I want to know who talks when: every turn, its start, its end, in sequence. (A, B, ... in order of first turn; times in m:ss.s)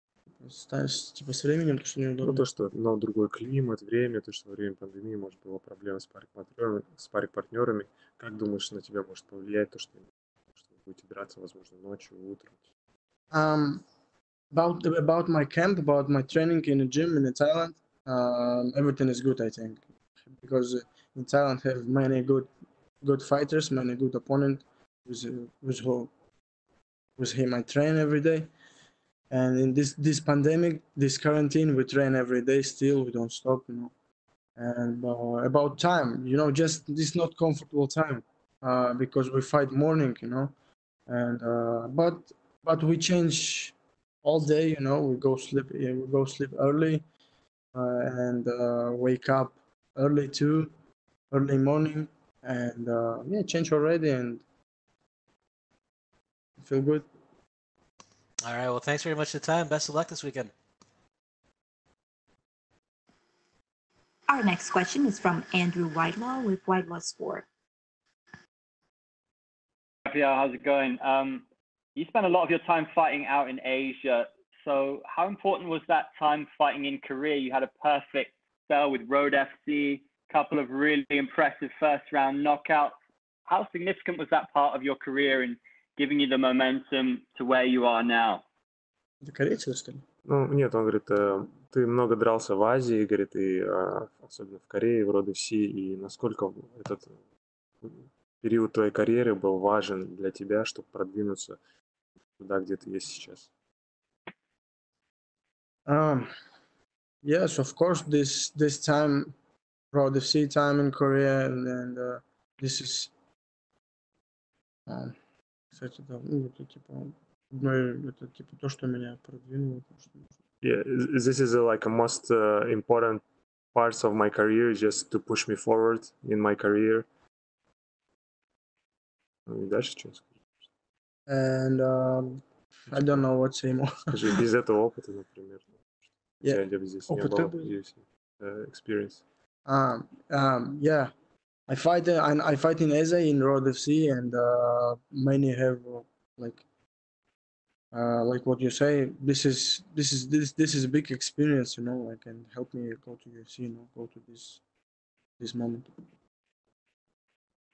0:00.4-0:02.4 A
0:02.2-0:12.5 B
0:13.3-0:13.8 A
0:14.5-0:19.8 A
0:20.3-0:22.5 A
0:23.0-0:26.1 A
0:27.2-0:28.5 A
0:29.3-0:33.9 A
0:34.6-0:40.5 A
0:41.1-0:47.0 A
0:47.7-0:50.7 A
0:51.3-0:54.4 A
0:56.6-0:57.0 A
0:58.4-1:00.5 C
1:04.3-1:07.5 D
1:10.0-1:11.4 E
1:12.0-1:22.9 E
1:23.4-1:28.4 E
1:29.2-1:30.0 A
1:30.2-1:37.1 B
1:37.8-1:41.6 B
1:42.4-1:43.5 B
1:45.9-1:46.3 A
1:47.2-1:49.3 A
1:49.9-1:53.1 A
1:54.9-1:55.1 A
1:55.7-2:00.3 A
2:00.6-2:03.2 B
2:03.7-2:07.1 B
2:09.5-2:10.3 B
2:11.3-2:14.4 A
2:12.9-2:13.2 B
2:14.1-2:15.7 B
2:16.4-2:17.7 A
2:16.4-2:19.2 B
2:19.6-2:21.1 A
2:21.7-2:26.6 A
2:27.9-2:34.6 A
2:35.4-2:35.9 A